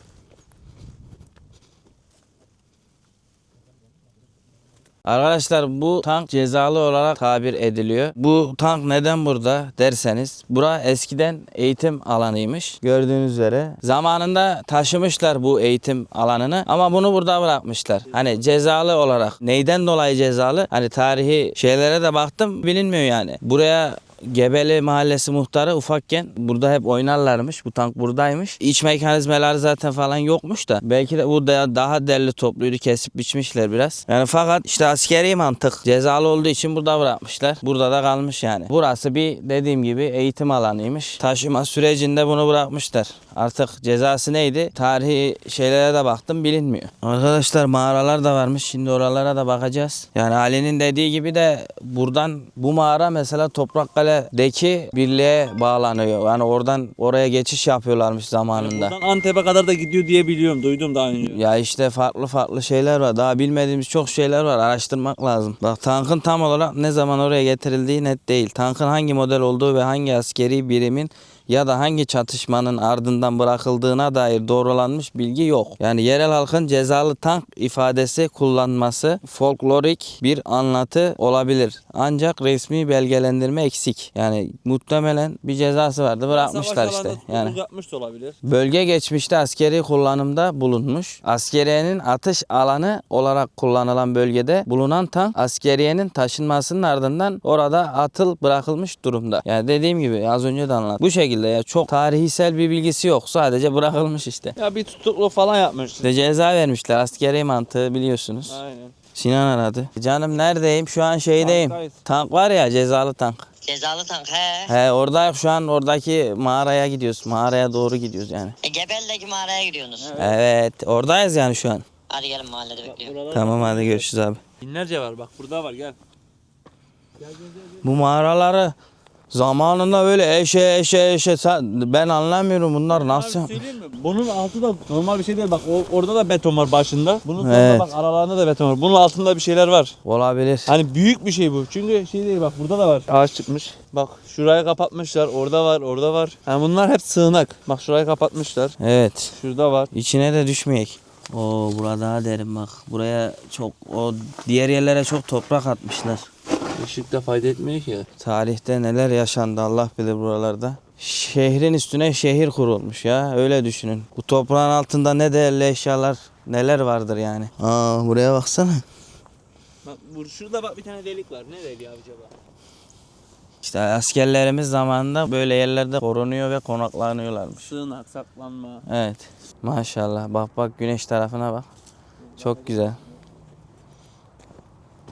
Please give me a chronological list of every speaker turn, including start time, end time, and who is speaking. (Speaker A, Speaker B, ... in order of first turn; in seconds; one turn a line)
Speaker A: 5.1-59.0
Speaker B: 58.6-61.4
Speaker A: 61.2-87.6
Speaker B: 86.3-88.4
Speaker A: 88.4-104.5
Speaker B: 104.6-106.1
Speaker A: 106.0-108.6
Speaker B: 108.5-108.9
Speaker A: 109.2-113.5
Speaker B: 111.4-111.9
Speaker C: 113.6-114.7
Speaker A: 114.7-118.6
Speaker C: 118.6-120.1
Speaker B: 120.0-120.4
Speaker A: 120.2-121.9
Speaker C: 122.1-123.1
Speaker B: 122.8-124.0
Speaker A: 123.3-124.4
Speaker B: 124.6-126.0
Speaker A: 127.8-128.8
Speaker A: 129.3-133.6
Speaker B: 132.9-139.9
Speaker A: 137.4-137.9
Speaker A: 140.1-140.7
Speaker B: 140.7-148.8
Speaker A: 148.8-149.3
Speaker B: 149.4-149.9
Speaker A: 149.9-156.3
Speaker B: 156.8-158.1
Speaker A: 158.2-168.8
Speaker B: 169.8-172.3
Speaker A: 173.6-177.7
Speaker B: 177.6-178.8
Speaker A: 178.9-181.7
Speaker B: 182.3-182.6
Speaker A: 182.4-183.0